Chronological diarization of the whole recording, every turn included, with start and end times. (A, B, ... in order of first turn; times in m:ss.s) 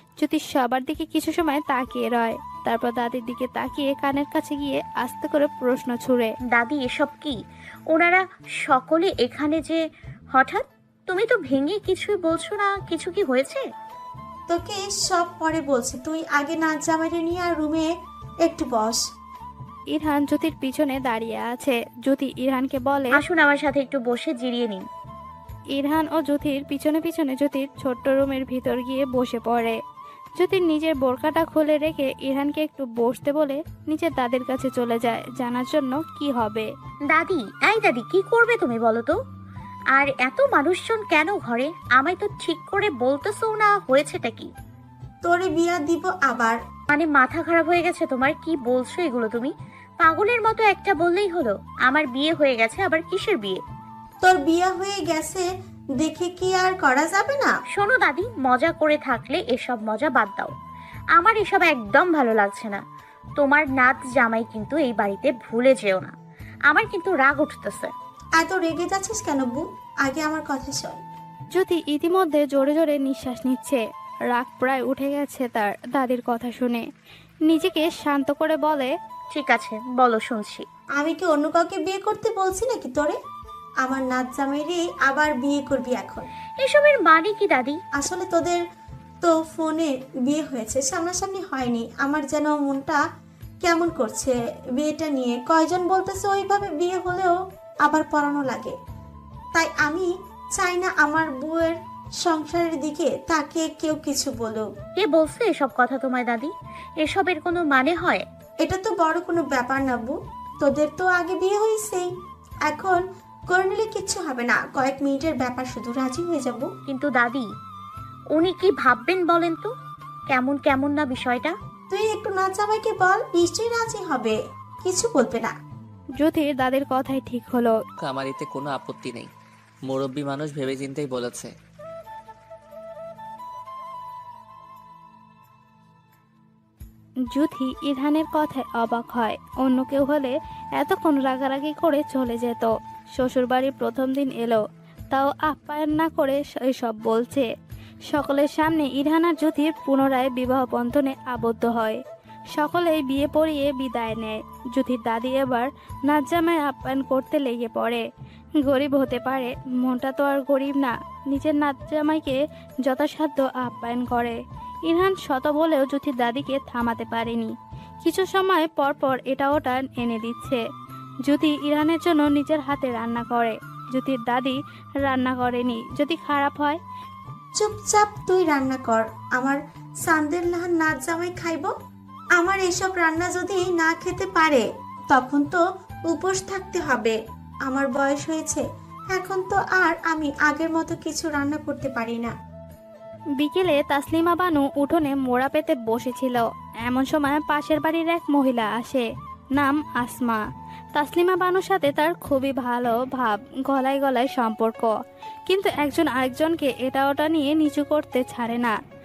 0:00.2-0:06.3 A
0:06.5-0:07.4 B
0:07.9-0:09.8 B
0:10.3-0:13.6 B
0:14.5-0:17.9 C
0:18.4-0:19.0 C
0:19.9-0:23.1 A
0:23.1-0:24.8 B
0:25.7-0:29.8 A
0:30.4-0:36.7 A
0:37.1-0:39.1 B
0:39.9-0:44.5 B
0:45.2-0:46.6 C
0:46.9-0:53.6 B
0:54.2-0:55.4 C
0:56.0-0:57.5 C
0:57.7-1:00.5 B
1:01.2-1:02.8 B
1:03.4-1:06.1 B
1:06.7-1:07.9 B
1:08.4-1:11.0 C
1:11.6-1:13.8 A
1:14.3-1:16.8 A
1:17.5-1:18.9 A
1:19.3-1:20.6 B
1:21.0-1:23.1 C
1:23.8-1:26.2 C
1:26.6-1:27.8 B
1:28.0-1:28.6 C
1:29.2-1:33.0 C
1:33.6-1:37.3 C
1:37.8-1:38.7 C
1:39.5-1:44.7 C
1:45.0-1:48.2 B
1:48.6-1:52.1 C
1:52.7-1:56.6 C
1:56.9-1:57.4 B
1:58.4-1:59.7 B
2:00.3-2:01.5 B
2:01.9-2:05.5 C
2:06.2-2:07.8 A
2:08.0-2:09.3 D
2:09.9-2:11.5 D
2:17.3-2:27.4 A
2:28.1-2:32.0 A
2:32.5-2:38.0 A
2:38.6-2:47.5 A
2:48.0-2:50.6 A
2:51.2-2:56.8 A
2:57.6-3:01.7 C
3:02.4-3:12.3 C
3:13.4-3:19.0 A
3:19.6-3:20.4 A
3:21.0-3:24.9 A
3:25.5-3:28.7 A